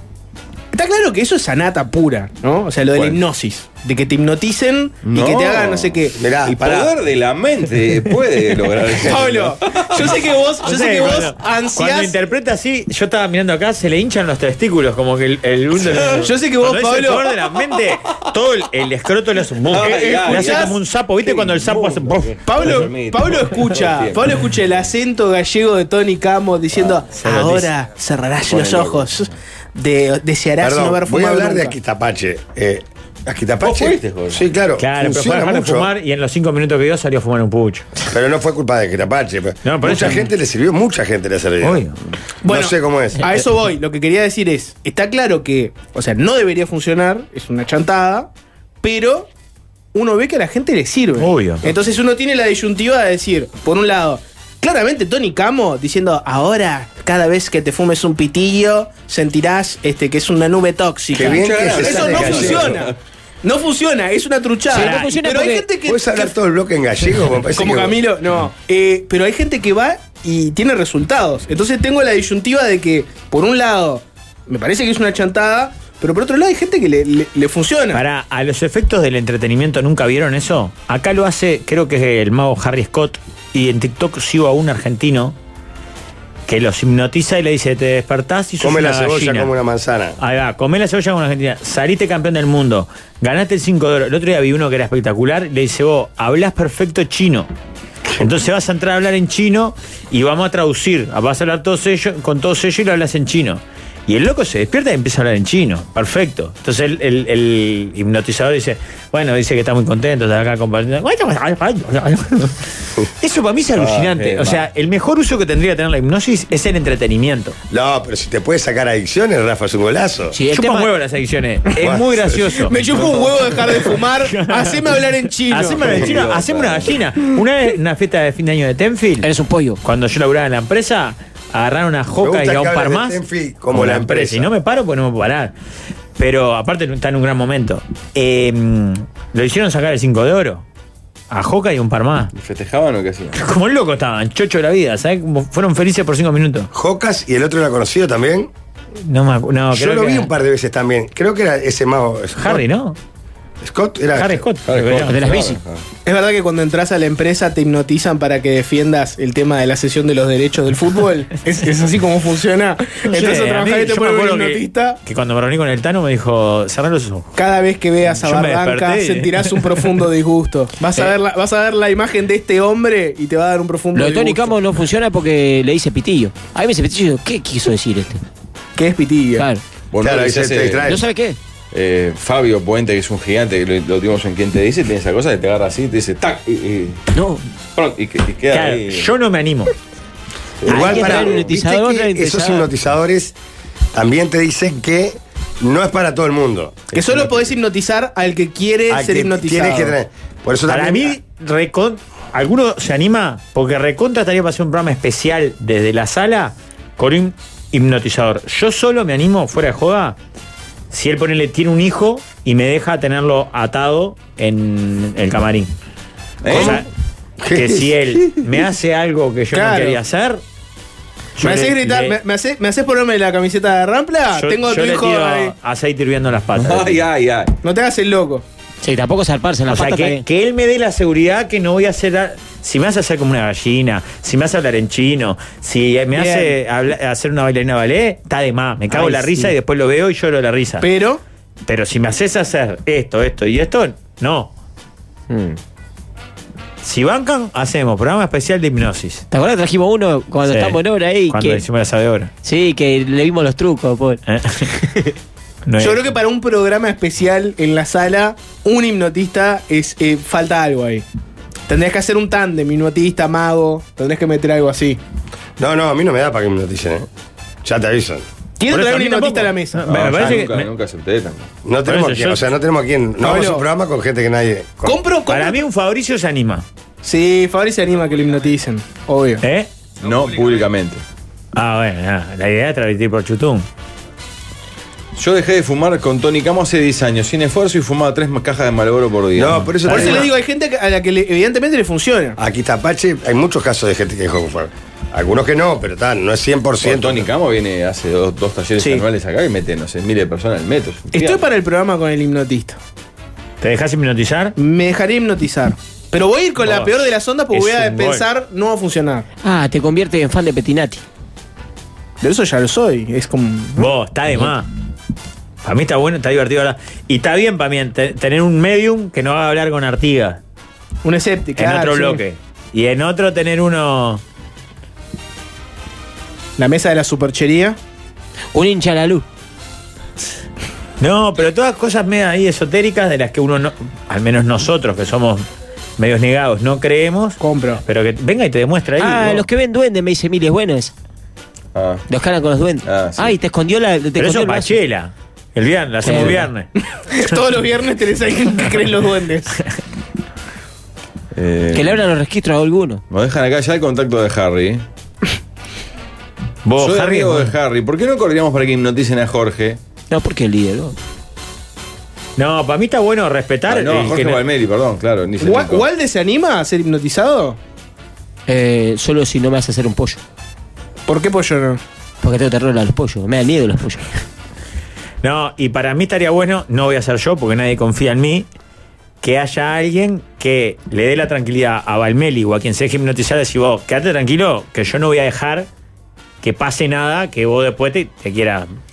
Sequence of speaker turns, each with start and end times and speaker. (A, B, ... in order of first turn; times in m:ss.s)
0:00.7-0:06.2 A
0:02.9-0:03.2 B
0:05.0-0:10.2 B
0:06.2-0:06.9 C
0:08.9-0:12.2 A
0:10.6-0:22.4 D
0:15.8-0:16.2 B
0:16.2-0:17.3 A
0:19.7-0:24.4 B
0:19.8-0:20.8 A
0:22.4-0:31.8 A
0:27.2-0:27.6 D
0:28.5-0:29.1 B
0:30.6-0:35.9 C
0:33.6-0:34.5 B
0:34.8-0:37.9 D
0:38.1-0:41.8 C
0:39.6-0:40.3 D
0:41.6-0:41.9 D
0:42.4-0:48.3 A
0:42.4-0:43.2 C
0:48.8-0:49.3 A
0:49.9-1:06.3 A
0:51.2-0:51.6 D
1:01.1-1:02.8 C
1:01.2-1:02.9 B
1:04.7-1:05.7 E
1:04.7-1:05.1 D
1:05.8-1:08.0 C
1:07.5-1:18.0 A
1:17.9-1:25.4 D
1:26.5-1:29.5 D
1:28.6-1:30.2 C
1:30.2-1:37.5 D
1:38.2-1:57.6 D
1:53.8-1:54.7 B
1:57.7-2:00.4 C
2:00.3-2:00.9 E
2:00.5-2:02.8 D
2:01.8-2:02.5 C
2:02.6-2:06.0 A
2:04.3-2:09.3 D
2:05.8-2:07.0 B
2:09.2-2:09.8 E
2:09.8-2:13.2 D
2:12.2-2:14.5 C
2:13.7-2:15.5 D
2:16.2-2:20.6 D
2:21.3-2:22.3 D
2:22.3-2:23.4 B
2:23.3-2:26.7 D
2:26.7-2:28.5 C
2:29.0-2:30.3 D
2:29.7-2:32.6 C
2:32.4-2:33.0 D
2:33.6-2:34.4 C
2:34.1-2:35.2 D
2:34.7-2:35.8 B
2:35.0-2:35.6 E
2:36.0-2:45.0 A
2:43.1-2:47.3 D
2:47.4-2:54.6 A
2:48.1-2:49.9 D
2:53.9-2:58.2 E
2:58.8-2:59.5 A
2:59.4-2:59.6 E
2:59.9-3:00.9 B
3:00.0-3:01.0 C
3:00.8-3:01.4 E
3:01.7-3:07.0 B
3:07.1-3:07.4 E
3:07.7-3:09.1 B
3:08.5-3:09.7 D
3:10.6-3:11.5 B
3:10.6-3:13.3 C
3:10.7-3:12.7 E
3:13.9-3:16.9 C
3:16.9-3:20.0 A
3:17.0-3:17.5 B
3:18.9-3:21.2 C
3:20.7-3:30.2 D
3:30.9-3:35.7 D
3:36.4-3:36.8 B
3:36.5-3:36.8 C
3:36.5-3:36.9 D
3:37.4-3:38.4 C
3:37.5-3:40.4 D
3:39.5-3:40.0 A
3:41.4-3:42.2 D
3:41.4-3:45.5 A
3:44.3-3:47.0 D
3:46.6-3:47.5 B
3:47.6-3:48.4 A
3:48.8-3:50.2 E
3:49.7-4:00.9 D
3:56.1-3:56.6 A
3:58.9-3:59.5 E
4:00.8-4:01.2 A
4:01.7-4:04.5 D
4:05.3-4:05.6 E
4:06.8-4:09.2 D
4:09.3-4:11.6 E
4:10.4-4:12.3 D
4:12.4-4:14.2 E
4:14.3-4:14.7 D
4:14.7-4:15.1 E
4:15.6-4:16.1 D
4:15.8-4:21.0 A
4:21.7-4:25.0 A
4:25.6-4:27.1 C
4:27.6-4:28.2 C
4:28.6-4:29.8 A
4:28.7-4:30.7 D
4:29.8-4:31.5 B
4:31.6-4:35.0 C
4:31.8-4:32.4 D
4:33.2-4:33.6 A
4:34.8-4:35.6 A
4:35.3-4:36.6 D
4:37.0-4:39.4 A
4:39.4-4:39.7 D
4:40.0-4:41.0 B
4:41.5-4:43.7 D
4:45.2-4:50.2 B
4:49.3-4:50.3 C
4:49.9-4:52.4 A
4:52.4-4:57.3 C
4:56.8-5:01.4 B
4:58.8-4:59.0 A
5:01.1-5:02.8 A
5:03.6-5:04.6 D
5:04.6-5:09.2 A
5:06.6-5:08.2 D
5:09.4-5:11.0 E
5:12.2-5:13.9 A
5:13.8-5:14.7 D
5:15.6-5:20.4 D
5:21.0-5:22.2 A
5:21.6-5:24.2 D
5:26.6-5:27.8 A
5:28.5-5:29.2 E
5:31.0-5:35.4 D
5:36.0-5:39.4 D
5:37.4-5:37.8 A
5:39.0-5:40.9 E
5:41.7-5:42.0 B
5:42.1-5:44.8 E
5:42.8-5:43.3 B
5:44.2-5:46.7 D
5:46.0-5:46.4 E
5:47.0-5:49.6 A
5:51.3-5:52.0 B
5:51.7-5:53.0 E
5:53.1-5:54.8 B
5:56.6-5:57.5 D
5:56.8-5:59.8 B
6:00.1-6:00.9 E
6:02.4-6:04.4 D
6:03.7-6:05.8 B
6:05.4-6:07.6 A
6:08.5-6:10.2 E
6:11.1-6:11.8 A
6:12.2-6:14.2 E
6:15.2-6:18.5 D
6:19.2-6:25.7 D
6:26.4-6:28.7 D